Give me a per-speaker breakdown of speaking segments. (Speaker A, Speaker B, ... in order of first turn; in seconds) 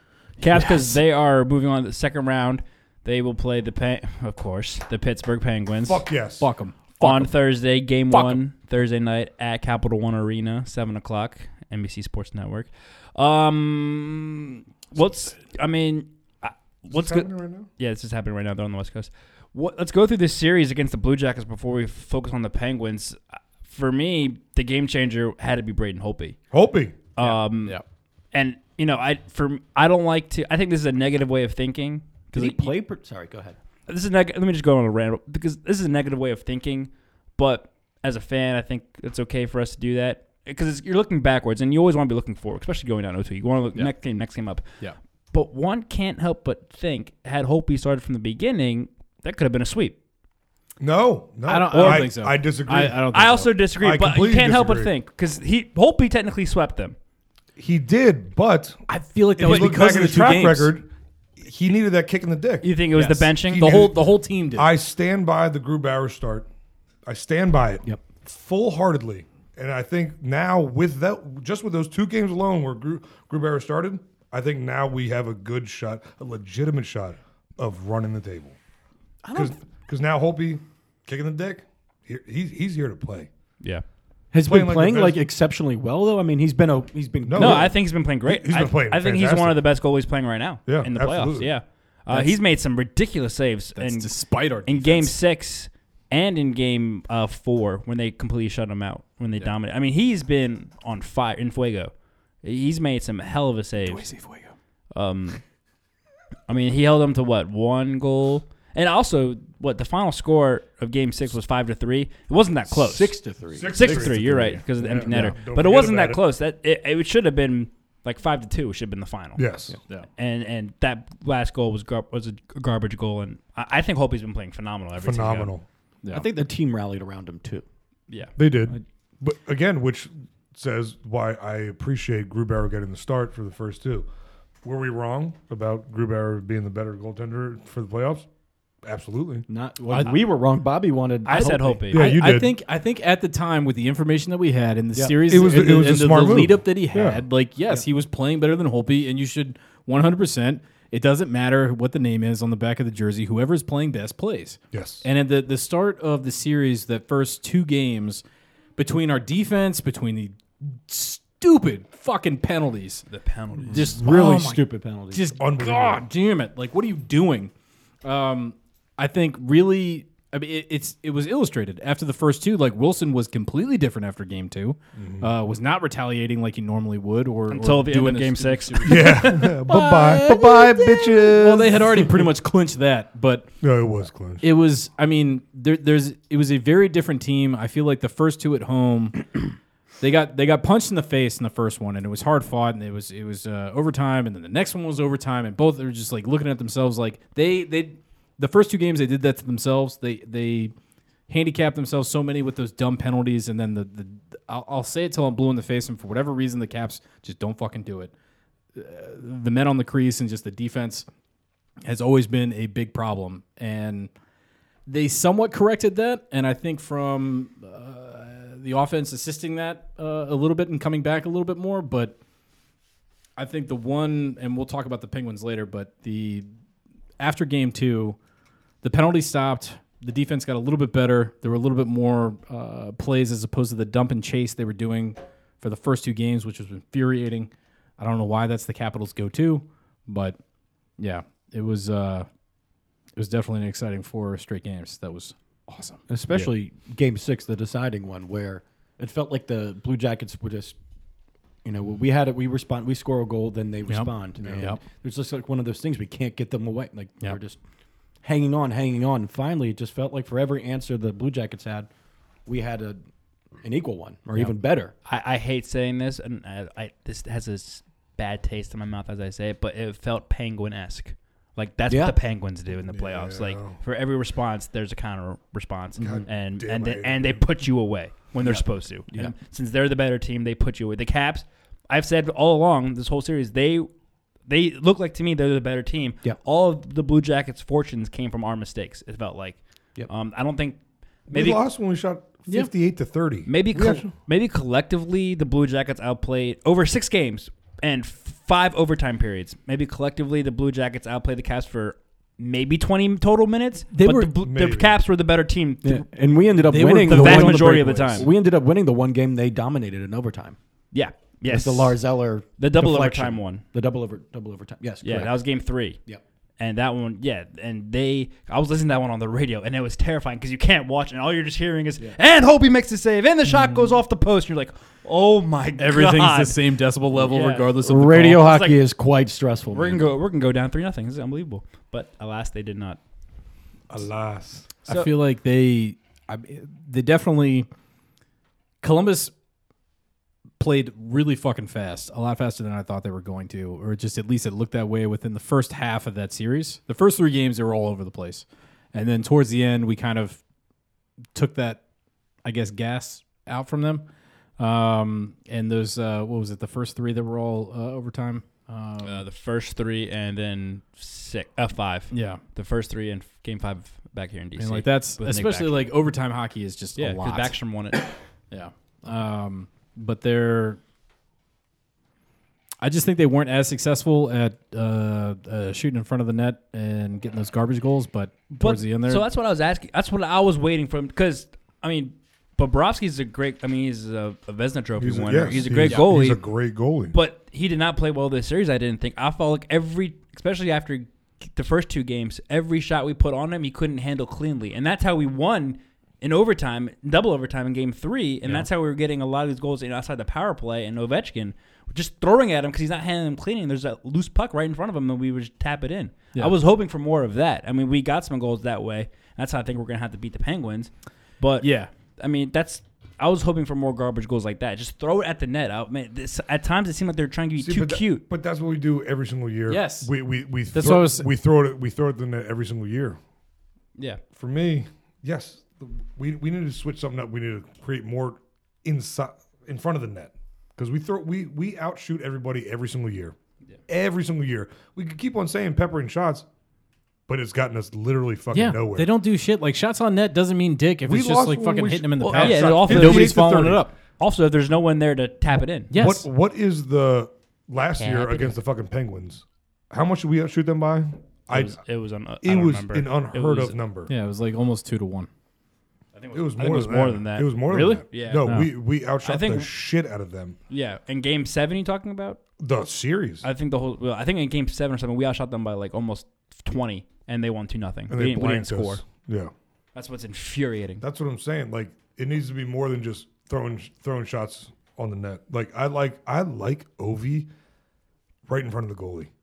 Speaker A: 0.4-6.0, 7.0-26.4, 27.1-27.8, 28.3-32.7, 33.9-44.6, 45.3-50.0, 51.7-52.1, 52.7-57.0, 62.6-63.9, 87.4-94.1, 94.7-101.9, 102.4-104.1, 104.9-105.4, 106.5-113.2, 113.7-119.5, 120.2-125.5, 128.1-128.8, 141.3-142.3, 163.1-164.0, 177.5-179.5, 265.1-283.9, 284.5-290.8, 291.3-291.6, 293.5-306.1, 306.8-308.3, 310.9-312.0, 312.6-313.6, 315.0-316.0, 316.6-326.6, 327.1-327.7, 328.4-328.8, 329.7-333.0, 334.9-335.1, 359.0-365.8, 367.0-368.1, 378.5-386.4, 387.1-418.2, 442.2-443.4, 444.2-445.9, 448.0-448.6, 451.5-453.8, 456.2-458.5, 459.2-459.7, 460.7-462.4, 463.4-469.0, 469.9-471.0
Speaker B: 0.4-0.8, 32.3-33.6, 84.3-87.7, 112.7-115.4, 126.1-127.6, 139.5-141.9, 144.9-145.2, 163.7-165.4, 246.1-250.8, 251.6-257.6, 258.2-261.9, 262.5-263.0, 263.6-264.9, 271.9-272.2, 278.4-279.3, 305.8-310.6, 311.5-315.3, 327.8-330.1
Speaker C: 5.9-6.5, 16.9-17.7, 26.5-27.0, 50.8-53.0, 53.8-54.9, 57.6-58.8, 59.4-60.9, 61.4-62.7, 63.5-66.5, 67.1-78.6, 79.3-83.3, 84.4-85.2, 87.3-89.6, 90.7-91.5, 113.5-116.2, 119.4-119.8, 125.0-125.7, 128.4-134.1, 134.6-138.3, 138.8-139.5, 141.9-142.5, 145.3-147.2, 154.7-155.1, 165.4-166.0, 175.0-175.3, 178.8-182.3, 183.6-184.4, 272.9-273.8, 276.0-277.5, 291.3-294.1, 304.4-304.9, 333.9-334.7, 385.0-387.2, 417.6-423.2, 424.4-433.4, 433.9-436.5, 437.3-439.1, 441.1-443.8, 445.9-451.8, 452.4-454.1, 456.3-460.6, 462.6-463.5, 468.1-469.5, 471.0-477.5, 478.5-479.3
Speaker D: 6.4-7.3, 8.1-8.4, 27.2-27.8, 51.5-53.5, 58.9-60.7, 62.9-64.7, 93.8-95.1, 103.8-104.5, 126.0-126.3, 139.9-140.2, 141.3-158.2, 158.8-163.1, 163.7-167.5, 168.0-183.6, 184.4-189.3, 190.0-200.7, 201.3-208.1, 208.7-211.1, 211.8-214.1, 214.9-222.2, 223.4-226.5, 227.2-228.2, 228.8-240.4, 241.0-242.3, 243.2-246.5, 253.9-254.8, 303.9-304.3, 306.7-308.2, 325.8-328.6, 334.9-337.7, 338.8-339.3, 340.6-350.4, 351.4-351.8, 352.4-354.1, 354.6-359.2, 362.1-362.4, 364.6-370.8, 372.8-379.3, 411.6-411.9, 419.7-420.1, 420.7-421.3, 438.5-443.9, 445.9-446.3, 454.1-455.3, 458.4-458.7